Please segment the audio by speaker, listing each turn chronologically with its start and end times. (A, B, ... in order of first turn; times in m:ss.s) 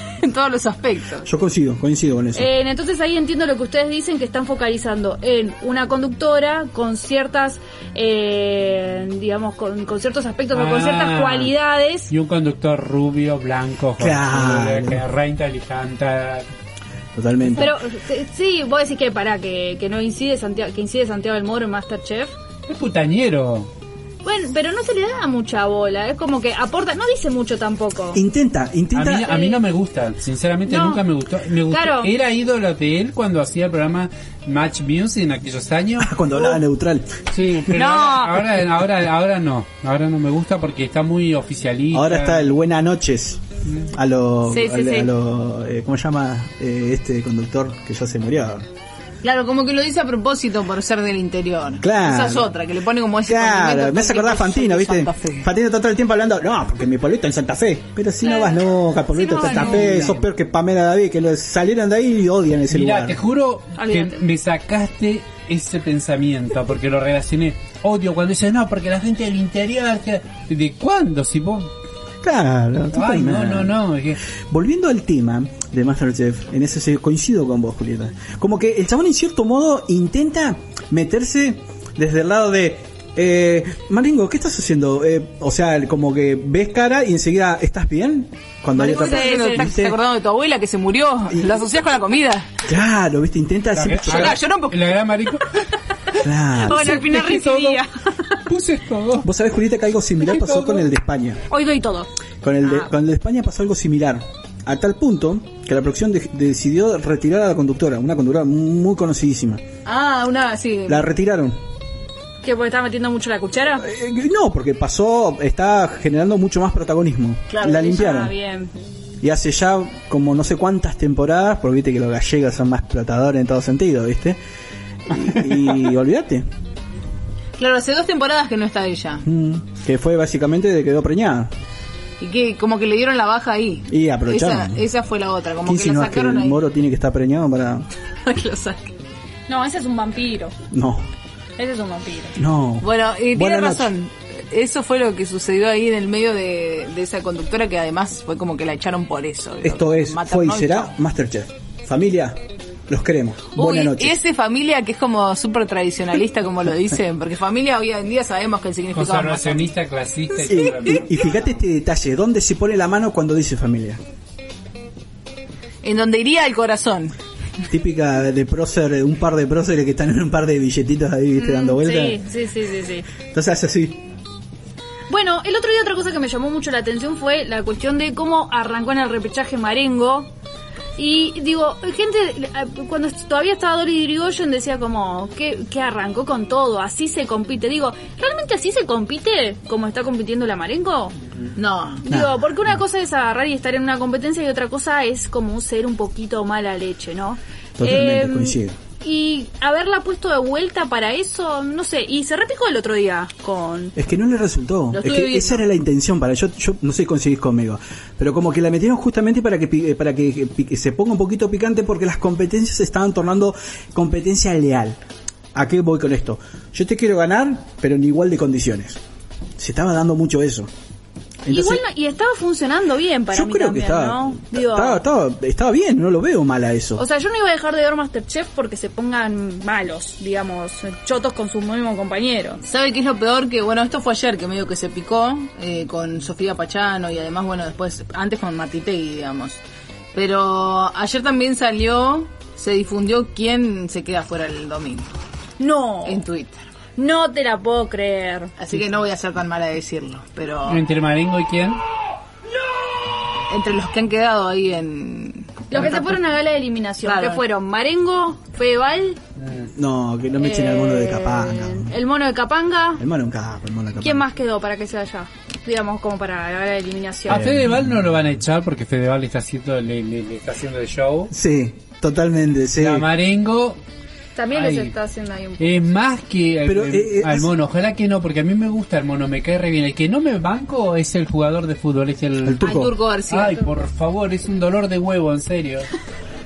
0:00.2-0:01.3 A
0:01.2-0:02.5 B
0:02.4-0:12.1 C
0:10.5-0:11.5 D
0:12.1-0:16.5 D
0:14.0-0:15.0 B
0:17.2-0:17.7 B
0:17.6-0:22.4 C
0:22.7-0:23.7 D
0:24.2-0:28.2 C
0:28.1-0:29.4 B
0:28.9-0:36.2 D
0:29.2-0:29.6 C
0:30.7-0:31.0 C
0:31.7-0:32.1 C
0:36.0-0:37.1 B
0:37.3-0:42.5 D
0:37.7-0:38.5 C
0:41.9-0:48.7 B
0:44.5-0:45.1 C
0:49.2-0:55.5 A
0:51.8-0:52.5 B
0:53.2-1:03.2 B
0:58.2-0:58.6 C
0:59.1-1:00.0 C
0:59.3-1:00.2 D
1:02.7-1:11.7 D
1:03.8-1:04.2 C
1:12.2-1:13.7 B
1:12.9-1:14.2 D
1:14.5-1:30.0 B
1:28.8-1:32.5 A
1:28.8-1:29.7 C
1:32.7-1:34.4 B
1:33.8-1:35.6 D
1:34.1-1:34.8 A
1:36.2-1:37.2 B
1:36.6-1:38.3 C
1:36.6-1:37.8 D
1:38.5-1:39.3 D
1:39.2-1:41.4 B
1:40.2-1:40.9 D
1:41.5-1:42.1 C
1:42.4-1:49.6 B
1:42.6-1:42.9 C
1:49.8-1:51.1 A
1:50.9-1:51.6 B
1:52.4-1:53.8 C
1:53.8-1:58.4 B
1:57.6-1:58.7 C
1:59.2-2:04.4 B
2:05.1-2:06.4 B
2:07.6-2:09.2 A
2:09.2-2:11.5 B
2:12.2-2:16.6 A
2:13.9-2:14.8 B
2:15.6-2:17.9 B
2:18.2-2:18.9 A
2:19.5-2:20.5 C
2:20.7-2:21.1 B
2:21.6-2:22.4 C
2:22.4-2:23.9 B
2:22.8-2:30.9 A
2:29.6-2:34.2 B
2:33.6-2:39.7 A
2:38.9-2:41.5 D
2:40.4-2:44.0 B
2:45.8-2:47.1 A
2:47.7-2:52.2 B
2:51.4-2:53.1 C
2:53.2-2:54.0 B
2:55.1-3:00.3 C
3:01.0-3:11.2 C
3:11.6-3:12.0 A
3:12.0-3:24.0 C
3:12.1-3:12.4 B
3:17.8-3:18.8 B
3:24.0-3:35.0 B
3:24.9-3:25.6 A
3:35.6-3:39.0 B
3:39.6-3:40.7 B
3:41.4-3:41.8 B
3:41.5-3:45.0 C
3:43.3-3:47.0 B
3:47.0-3:52.6 C
3:52.6-3:59.6 A
4:00.1-4:05.1 A
4:05.6-4:06.2 C
4:06.0-4:06.7 A
4:07.0-4:08.5 C
4:08.6-4:10.8 A
4:10.7-4:11.8 D
4:13.5-4:16.2 A
4:15.7-4:19.2 C
4:17.0-4:17.4 A
4:19.4-4:19.7 D
4:19.8-4:21.9 B
4:20.4-4:23.0 C
4:23.0-4:24.3 B
4:24.0-4:27.4 C
4:27.3-4:31.3 D
4:27.3-4:27.8 B
4:31.3-4:33.1 B
4:32.8-4:33.8 D
4:34.4-4:35.9 C
4:34.5-4:34.9 D
4:35.6-4:42.8 D
4:36.6-4:37.5 B
4:42.4-4:43.0 B
4:42.6-4:43.7 A
4:43.3-4:45.9 D